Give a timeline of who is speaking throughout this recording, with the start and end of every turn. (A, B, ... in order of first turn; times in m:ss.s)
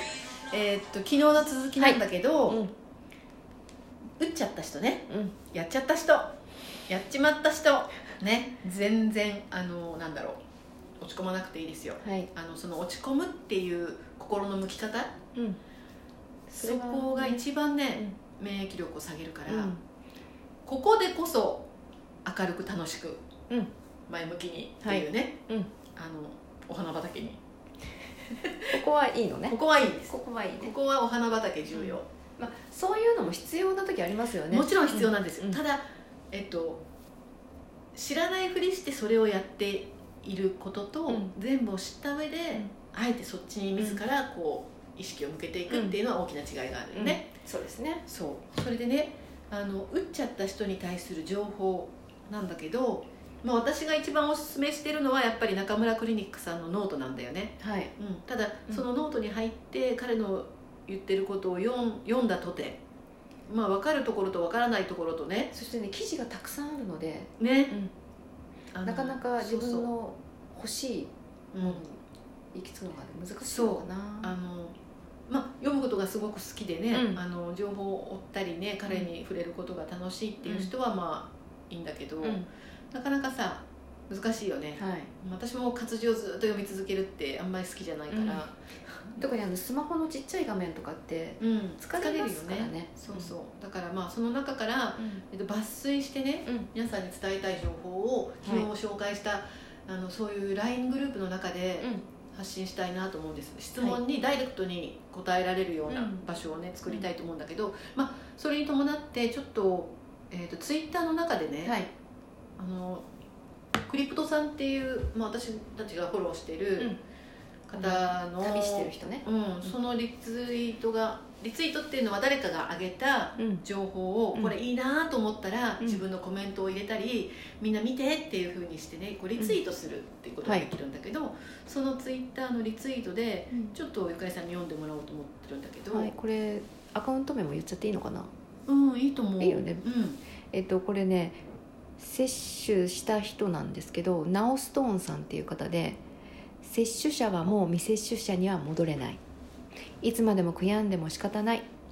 0:00.5-0:02.6 A
0:01.8-0:02.7 B
0:04.2-0:06.3 A
0:05.1-0:05.3 B
0:06.9-0:10.4 A
0:11.0-0:15.1 A
0:12.0-0:12.3 B
0:16.5-0:17.4 B
0:16.6-0:19.8 A
0:19.5-0:19.8 B
0:20.6-0:21.7 A
0:22.2-0:23.2 A
0:24.1-0:25.4 A
0:24.8-0:25.7 B
0:25.9-0:27.4 A
0:28.3-0:28.8 A
0:28.8-0:30.7 B
0:29.5-0:32.0 A
0:31.7-0:35.6 B
0:34.5-0:36.8 A
0:37.9-0:47.3 A
0:41.1-0:41.3 B
0:45.7-0:45.9 B
0:46.9-0:48.0 B
0:48.0-1:02.8 A
0:57.6-0:57.9 B
1:03.5-1:05.5 A
1:05.5-1:07.9 B
1:07.4-1:07.8 A
1:08.7-1:09.9 A
1:08.8-1:12.0 B
1:11.5-1:11.8 A
1:12.5-1:14.3 B
1:13.4-1:14.7 A
1:15.3-1:28.6 A
1:16.9-1:17.2 B
1:20.4-1:20.7 B
1:22.2-1:22.5 B
1:24.8-1:25.1 B
1:28.1-1:28.4 B
1:29.2-1:33.3 B
1:31.4-1:51.8 A
1:35.0-1:35.2 B
1:38.4-1:38.7 B
1:45.9-1:46.2 B
1:51.6-1:51.9 B
1:52.6-1:53.0 A
1:53.9-1:56.9 A
1:57.7-2:16.1 A
1:57.8-1:59.7 B
2:03.4-2:03.6 B
2:15.9-2:18.3 B
2:18.7-2:20.2 A
2:19.4-2:19.8 B
2:20.5-2:21.4 B
2:22.0-2:26.0 B
2:26.6-2:29.2 B
2:30.0-2:31.7 B